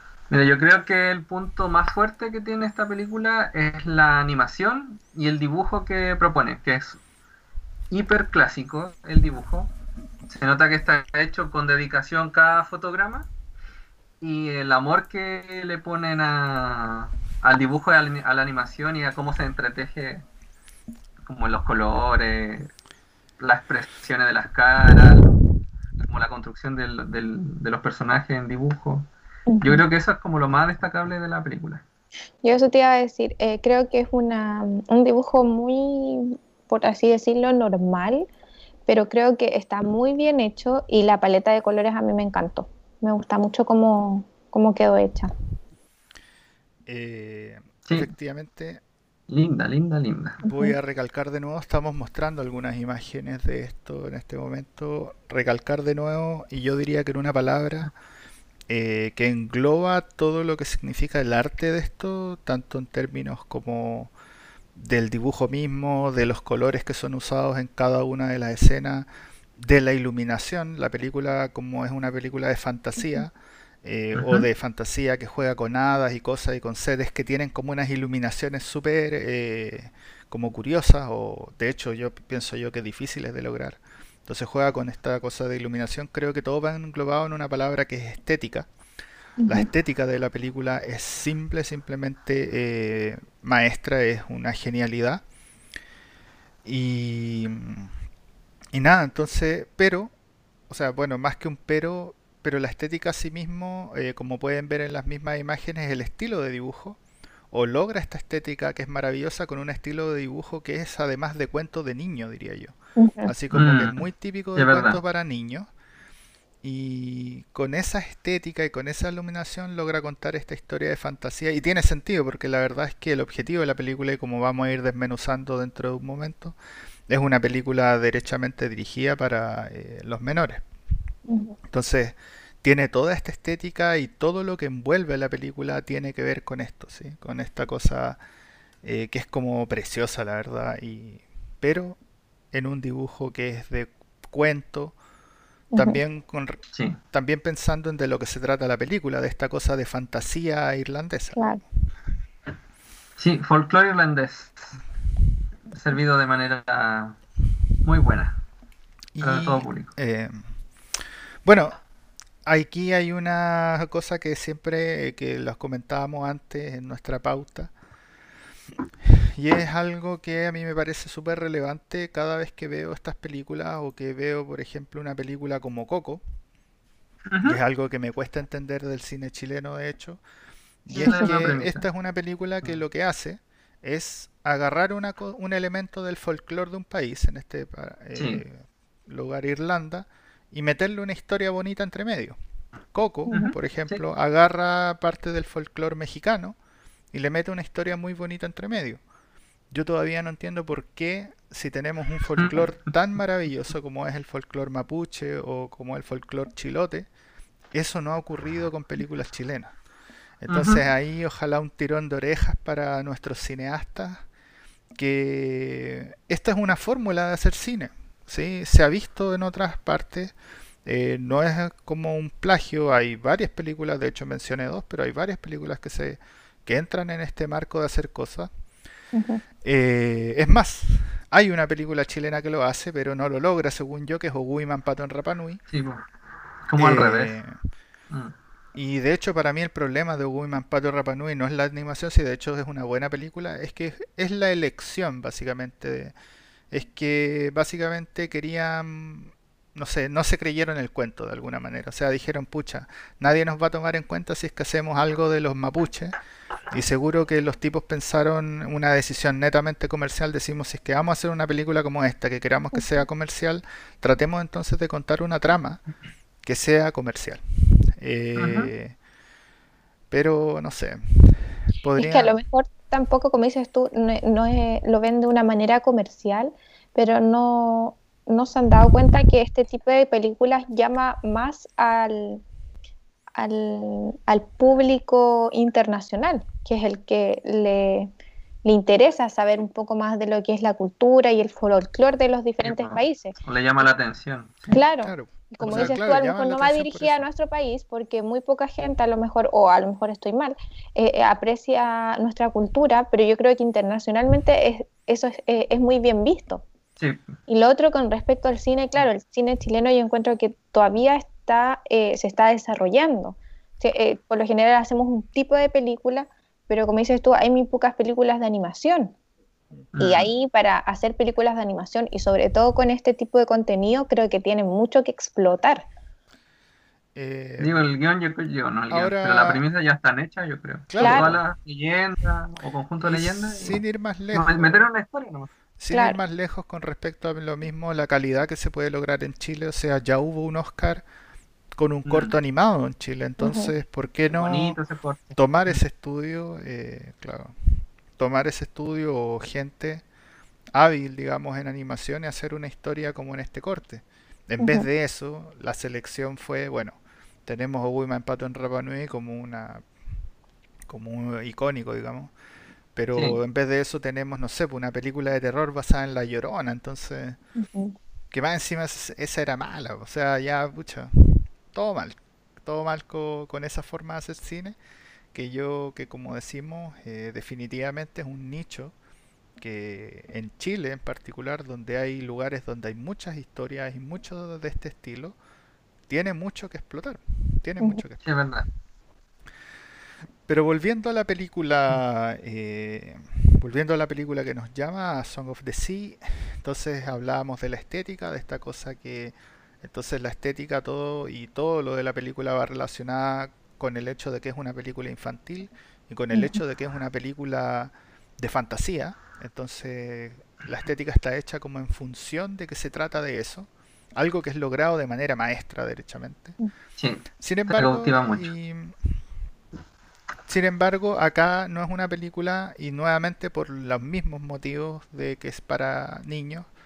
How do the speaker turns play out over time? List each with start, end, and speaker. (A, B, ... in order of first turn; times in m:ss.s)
0:00.3-0:07.0 A
0:07.9-0:09.7 A
0:10.3-0:13.3 A
0:14.2-0:20.2 A
0:21.2-0:22.7 A
0:23.4-0:25.3 A
0:26.0-0:29.1 A
0:29.5-0:29.8 B
0:29.6-0:31.8 A
0:32.4-0:38.3 B
0:38.9-0:45.3 B
0:46.9-0:48.8 C
0:49.3-0:50.4 A
0:50.4-0:50.8 B
0:50.5-0:57.9 C
0:58.7-1:04.1 C
1:04.8-1:13.3 C
1:13.0-1:13.2 B
1:13.8-1:28.7 C
1:14.1-1:14.5 A
1:29.4-1:29.7 B
1:29.5-1:35.2 C
1:36.6-1:37.9 C
1:38.7-1:40.1 C
1:40.7-1:47.0 C
1:47.5-1:55.7 C
1:53.0-1:53.3 B
1:53.5-1:54.0 A
1:54.6-1:55.0 A
1:56.6-2:06.6 C
2:07.1-2:10.6 C
2:11.3-2:11.6 B
2:11.7-2:18.2 C
2:18.8-2:22.0 C
2:22.5-2:25.0 C
2:25.7-2:26.0 B
2:25.8-2:31.5 C
2:26.7-2:27.0 A
2:31.4-2:31.6 B
2:33.2-2:34.8 A
2:35.7-2:37.2 A
2:37.8-2:38.4 A
2:39.2-2:41.8 C
2:39.2-2:39.9 A
2:42.4-2:47.7 C
2:49.0-2:56.2 C
2:57.3-2:57.6 A
2:57.4-3:00.2 C
3:00.8-3:12.4 C
3:01.0-3:01.3 B
3:01.0-3:01.8 A
3:08.2-3:08.4 A
3:12.9-3:16.6 C
3:13.3-3:14.0 A
3:17.1-3:19.0 C
3:19.7-3:27.1 C
3:22.4-3:22.7 A
3:27.7-3:29.8 C
3:30.4-3:34.2 C
3:30.5-3:30.8 A
3:35.0-3:48.5 C
3:49.1-3:49.4 B
3:49.6-3:55.6 C
3:55.7-3:56.0 A
3:56.7-3:57.4 A
3:56.8-3:57.6 C
3:58.1-3:58.4 A
3:58.8-4:06.2 C
4:06.7-4:16.2 C
4:16.7-4:25.8 C
4:26.4-4:29.0 C
4:28.4-4:28.7 A
4:30.1-4:32.4 C
4:32.0-4:42.4 B
4:43.4-4:48.1 B
4:48.6-4:53.4 B
4:52.6-4:54.8 A
4:54.7-5:06.6 B
4:55.0-4:57.3 C
4:55.6-4:55.9 A
5:07.0-5:07.3 A
5:07.5-5:19.2 B
5:19.9-5:20.3 A
5:20.0-5:25.9 B
5:27.2-5:27.8 C
5:27.6-5:33.8 A
5:28.9-5:29.6 C
5:30.9-5:31.4 C
5:31.0-5:31.4 B
5:33.0-5:34.8 C
5:34.3-5:35.5 A
5:35.8-5:41.0 C
5:35.9-5:36.2 B
5:41.8-5:44.8 C
5:42.1-5:42.3 A
5:43.4-5:43.7 B
5:44.3-5:45.8 A
5:45.4-5:50.0 C
5:50.8-5:59.9 C
5:54.6-5:54.9 B
6:00.9-6:02.3 C
6:03.0-6:07.4 C
6:03.1-6:03.4 A
6:07.6-6:08.0 B
6:08.3-6:14.8 C
6:15.3-6:19.0 C
6:19.6-6:25.4 C
6:26.1-6:28.2 C
6:28.2-6:28.7 A
6:30.5-6:56.6 C
6:46.3-6:46.6 B
6:57.0-6:58.5 A
6:57.4-6:59.1 C
7:00.5-7:06.7 C